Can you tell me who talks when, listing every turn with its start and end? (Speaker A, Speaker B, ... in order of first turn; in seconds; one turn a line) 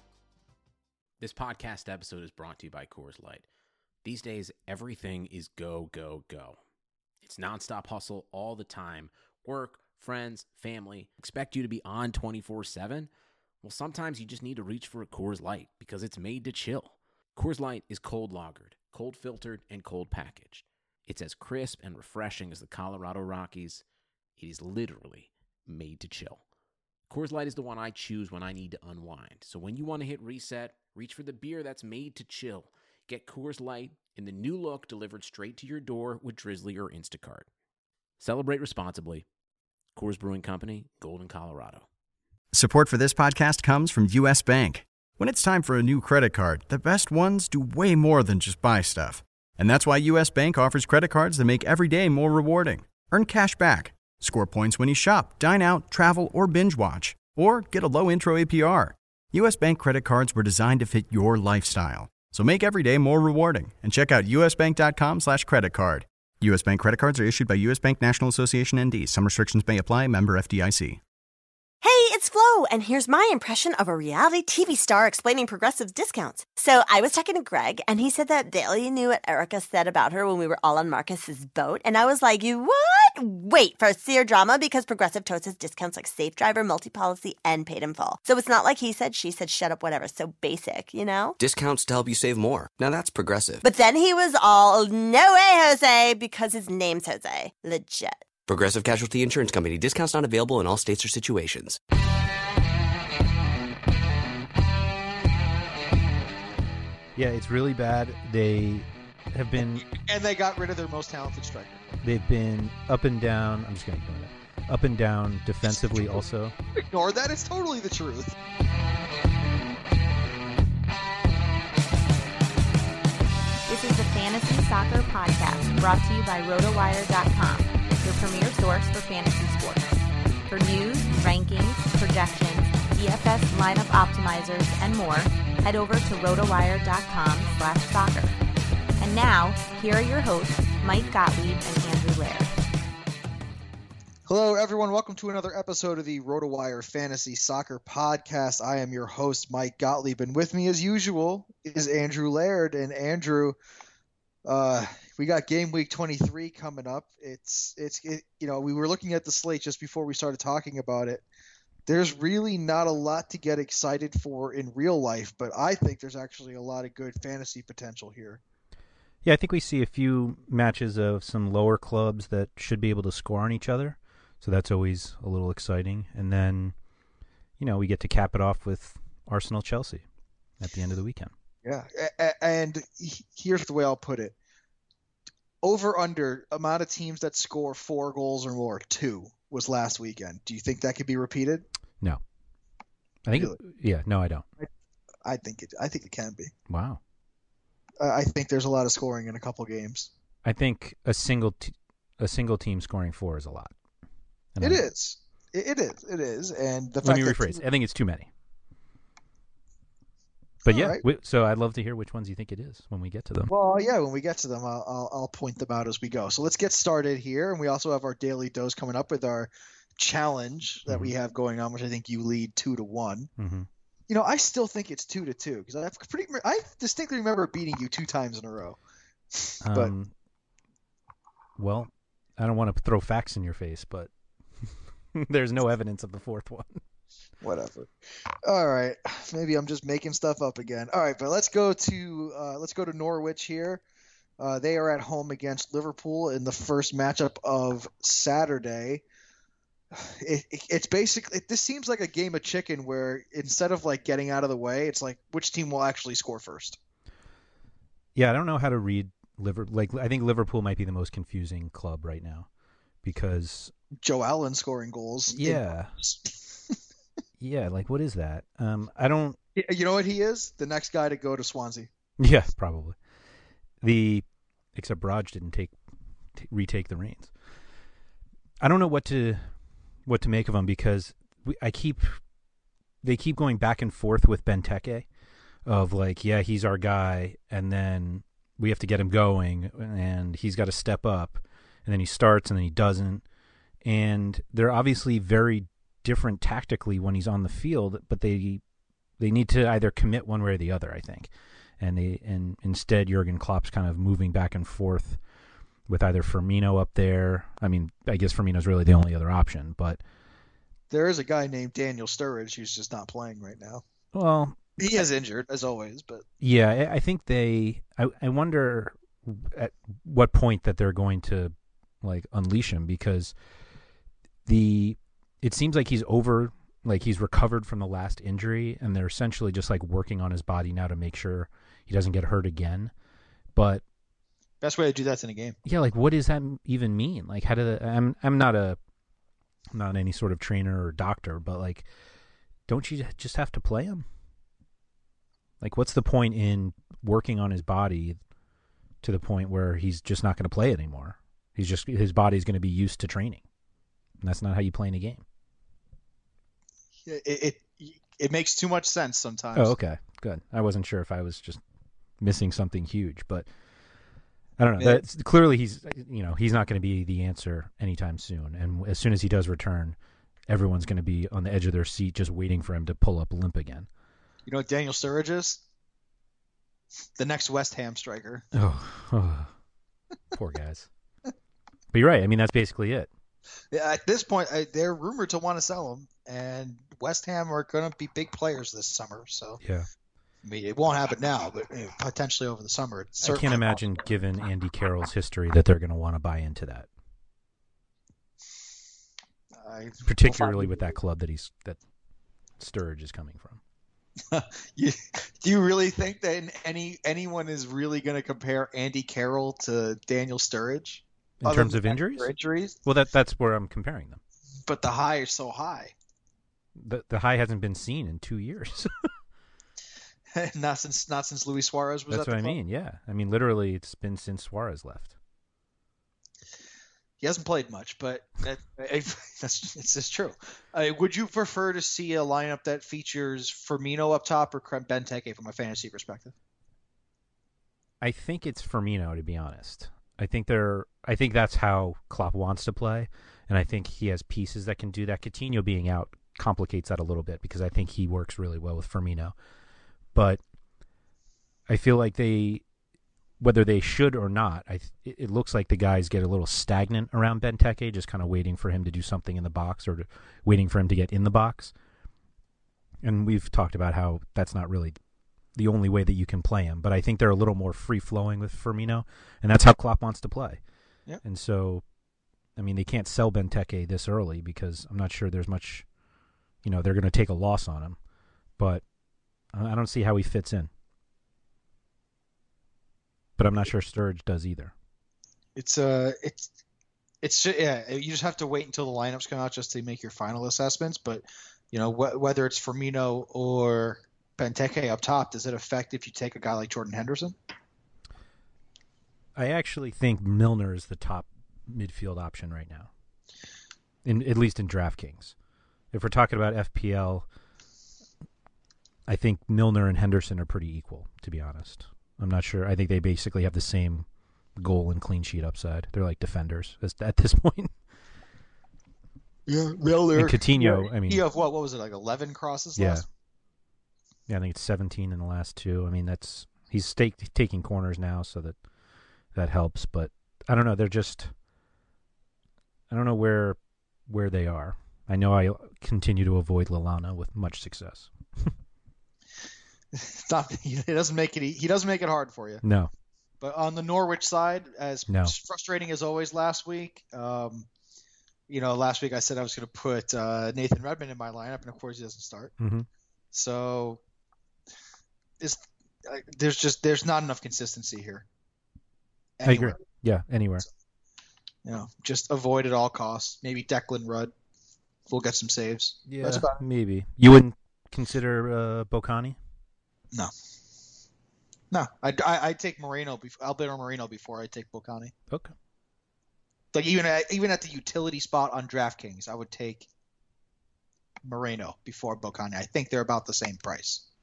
Speaker A: 1.2-3.5
Speaker A: 4.0-6.6
Speaker A: 7.2-13.1
Speaker A: 13.6-23.8
Speaker A: 24.4-26.4
Speaker A: 27.1-37.5
Speaker A: 38.2-39.2
Speaker A: 39.9-41.9
Speaker B: 42.5-71.0
Speaker C: 71.8-91.3
Speaker D: 91.4-93.6
Speaker C: 93.6-98.2
Speaker D: 98.5-101.8
Speaker E: 107.2-109.8
Speaker F: 109.6-111.9
Speaker E: 112.0-116.5
Speaker F: 115.8-116.2
Speaker F: 116.7-118.3
Speaker G: 123.7-138.3
Speaker G: 139.0-142.5
Speaker F: 144.2-153.6
Speaker F: 154.4-161.2
Speaker F: 161.8-168.4
Speaker E: 169.2-176.7
Speaker E: 177.6-180.0
Speaker E: 180.6-181.3
Speaker F: 181.6-184.3
Speaker F: 185.6-191.6
Speaker E: 193.2-194.4
Speaker F: 195.2-196.5
Speaker E: 196.7-197.0
Speaker F: 198.0-200.1
Speaker E: 200.4-203.7
Speaker E: 204.6-204.8
Speaker F: 204.6-207.6
Speaker E: 207.0-208.3
Speaker F: 210.6-211.0
Speaker E: 210.7-213.5
Speaker F: 213.5-223.3
Speaker E: 220.9-221.1
Speaker E: 223.4-223.7
Speaker F: 224.1-228.8
Speaker F: 229.3-229.9
Speaker E: 229.6-230.1
Speaker E: 231.6-234.1
Speaker E: 235.1-236.8
Speaker F: 237.4-243.8
Speaker F: 244.4-249.0
Speaker F: 249.9-256.8
Speaker E: 258.1-262.5
Speaker E: 263.0-263.7
Speaker F: 264.0-266.8
Speaker E: 265.3-265.9
Speaker E: 267.4-269.4
Speaker F: 269.5-271.9
Speaker E: 272.2-273.0
Speaker E: 273.8-275.7
Speaker E: 276.4-277.3
Speaker E: 278.6-279.4
Speaker E: 280.1-282.2
Speaker E: 283.0-285.1
Speaker E: 285.6-293.2
Speaker E: 293.8-298.6
Speaker E: 299.2-305.2
Speaker E: 305.9-310.0
Speaker F: 310.9-313.8
Speaker E: 314.1-314.6
Speaker F: 314.8-316.2
Speaker E: 316.4-323.3
Speaker E: 324.4-332.9
Speaker E: 333.5-333.8
Speaker F: 334.6-335.6
Speaker E: 335.6-338.8
Speaker E: 339.7-341.8
Speaker E: 342.7-344.0
Speaker E: 345.6-348.2
Speaker E: 349.0-353.4
Speaker E: 354.2-355.2
Speaker F: 357.0-359.8
Speaker E: 359.5-361.6
Speaker E: 362.2-363.5
Speaker E: 364.6-369.9
Speaker F: 364.8-365.0
Speaker E: 370.5-373.9
Speaker F: 374.4-375.6
Speaker F: 377.1-378.4
Speaker E: 378.5-379.5
Speaker E: 380.3-380.9
Speaker E: 381.9-383.1
Speaker F: 383.7-389.6
Speaker F: 390.4-393.9
Speaker E: 393.2-396.9
Speaker F: 399.5-400.9
Speaker E: 400.0-401.8
Speaker E: 402.6-403.6
Speaker F: 404.3-412.8
Speaker E: 411.4-412.3
Speaker E: 412.8-414.2
Speaker F: 414.6-415.9
Speaker E: 416.8-418.9
Speaker F: 420.3-422.6
Speaker E: 422.1-425.1
Speaker F: 427.2-436.3
Speaker E: 438.0-449.3
Speaker E: 450.1-450.4
Speaker E: 451.7-452.6
Speaker E: 453.4-461.7
Speaker E: 463.0-465.0
Speaker E: 465.5-470.6
Speaker E: 471.2-471.8
Speaker E: 472.6-475.8
Speaker E: 476.6-478.0
Speaker E: 478.6-478.8
Speaker E: 479.5-480.7
Speaker E: 483.4-484.7
Speaker F: 485.6-486.5
Speaker F: 487.2-497.4
Speaker E: 499.4-502.9
Speaker E: 504.0-505.3
Speaker E: 505.9-507.2
Speaker E: 509.1-514.0
Speaker E: 514.6-517.7
Speaker F: 519.5-523.0
Speaker E: 520.1-521.2
Speaker E: 522.8-523.0
Speaker E: 524.3-528.5
Speaker E: 529.3-531.3
Speaker E: 532.9-538.5
Speaker F: 539.9-542.6
Speaker E: 542.6-542.9
Speaker F: 543.4-547.7
Speaker E: 545.1-545.3
Speaker F: 548.5-552.5
Speaker E: 552.6-552.9
Speaker F: 553.3-554.0
Speaker F: 555.4-558.2
Speaker F: 559.4-559.8
Speaker E: 559.4-560.6
Speaker F: 561.6-564.3
Speaker F: 565.1-566.6
Speaker E: 566.1-569.4
Speaker F: 571.7-575.1
Speaker F: 576.7-579.9
Speaker F: 581.2-584.0